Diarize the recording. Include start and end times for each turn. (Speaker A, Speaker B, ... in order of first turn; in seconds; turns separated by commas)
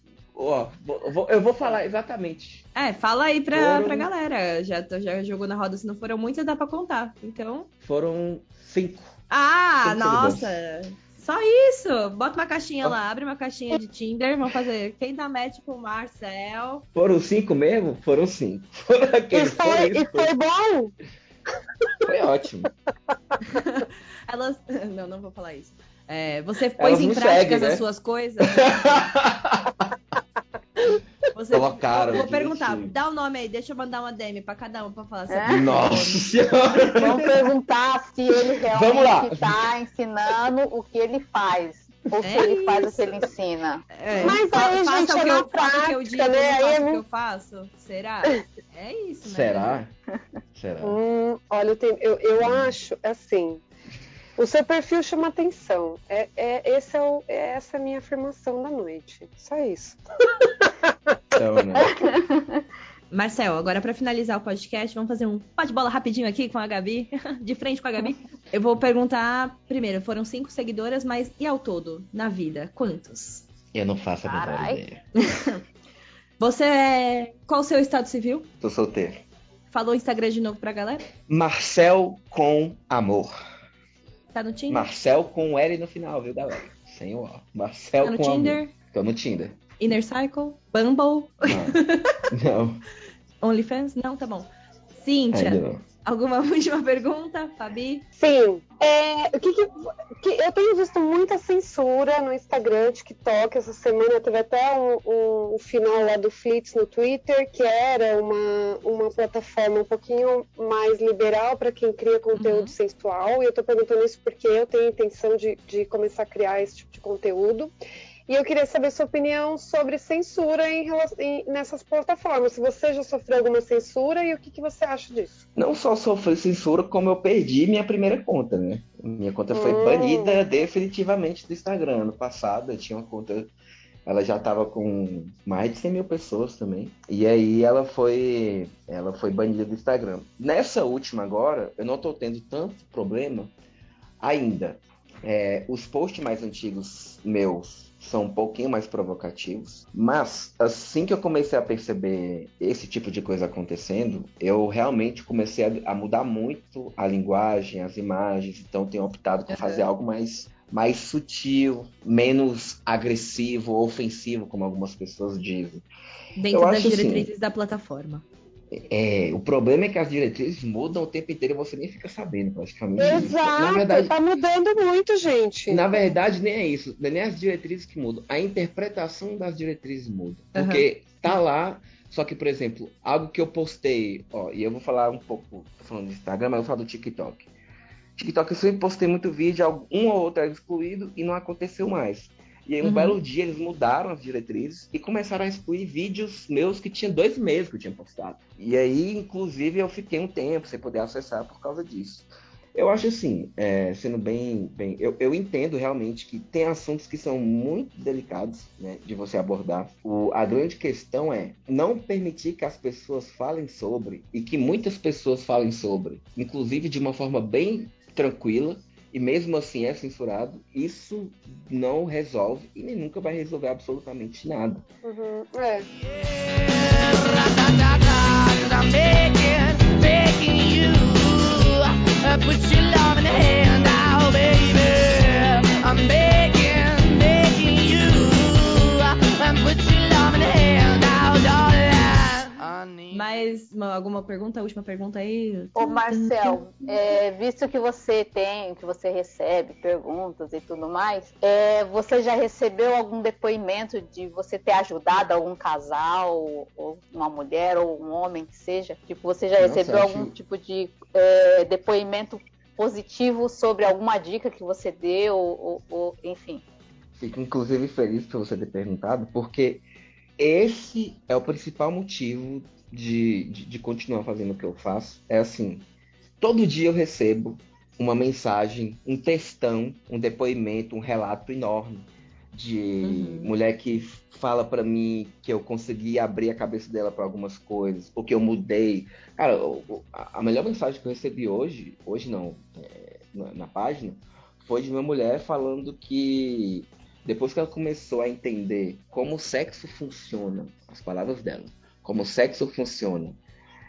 Speaker A: 0.3-2.7, Speaker B: 2.8-7.7, Speaker A: 3.5-4.1, Speaker A: 7.8-9.2, Speaker B: 9.3-16.9, Speaker A: 9.8-10.5, Speaker A: 16.9-20.3, Speaker C: 19.3-20.9, Speaker A: 22.0-22.7, Speaker B: 23.4-29.0, Speaker A: 26.8-27.9, Speaker A: 28.5-29.8, Speaker B: 31.3-36.3, Speaker A: 31.5-33.0, Speaker D: 35.3-35.8, Speaker A: 35.5-37.3, Speaker D: 36.9-43.9, Speaker C: 37.0-37.4, Speaker A: 38.7-39.7, Speaker C: 42.1-43.1, Speaker B: 42.2-43.0, Speaker B: 43.9-49.8, Speaker C: 44.2-47.0, Speaker A: 49.2-49.9, Speaker A: 50.5-51.0, Speaker C: 50.8-53.6, Speaker A: 52.4-52.8, Speaker C: 54.4-60.9, Speaker A: 61.4-62.0, Speaker D: 61.8-62.4, Speaker B: 63.1-73.5, Speaker A: 73.7-75.0, Speaker D: 74.3-74.8, Speaker B: 75.2-75.6, Speaker B: 76.4-78.5, Speaker A: 78.6-79.2, Speaker B: 79.7-81.0, Speaker A: 81.3-83.3, Speaker B: 84.3-84.9, Speaker A: 84.7-89.6, Speaker B: 88.0-88.7, Speaker B: 89.8-92.3, Speaker A: 91.4-92.8, Speaker B: 93.4-98.1, Speaker A: 95.3-95.8, Speaker C: 98.2-117.7, Speaker B: 112.3-112.7, Speaker C: 118.3-125.4, Speaker A: 125.5-133.5, Speaker C: 129.5-130.4, Speaker A: 134.1-143.5, Speaker A: 144.2-165.9, Speaker B: 159.5-159.9, Speaker B: 166.4-168.2, Speaker A: 166.5-167.3, Speaker A: 168.7-174.1, Speaker C: 173.0-176.1, Speaker A: 175.7-187.5, Speaker B: 180.6-180.9, Speaker A: 188.2-224.8, Speaker B: 192.8-193.2, Speaker C: 225.1-225.9, Speaker E: 226.0-243.3, Speaker B: 243.1-246.6, Speaker D: 245.8-266.6, Speaker A: 259.6-260.4, Speaker A: 267.2-269.8, Speaker A: 270.4-275.9, Speaker A: 276.4-303.4, Speaker B: 283.0-283.5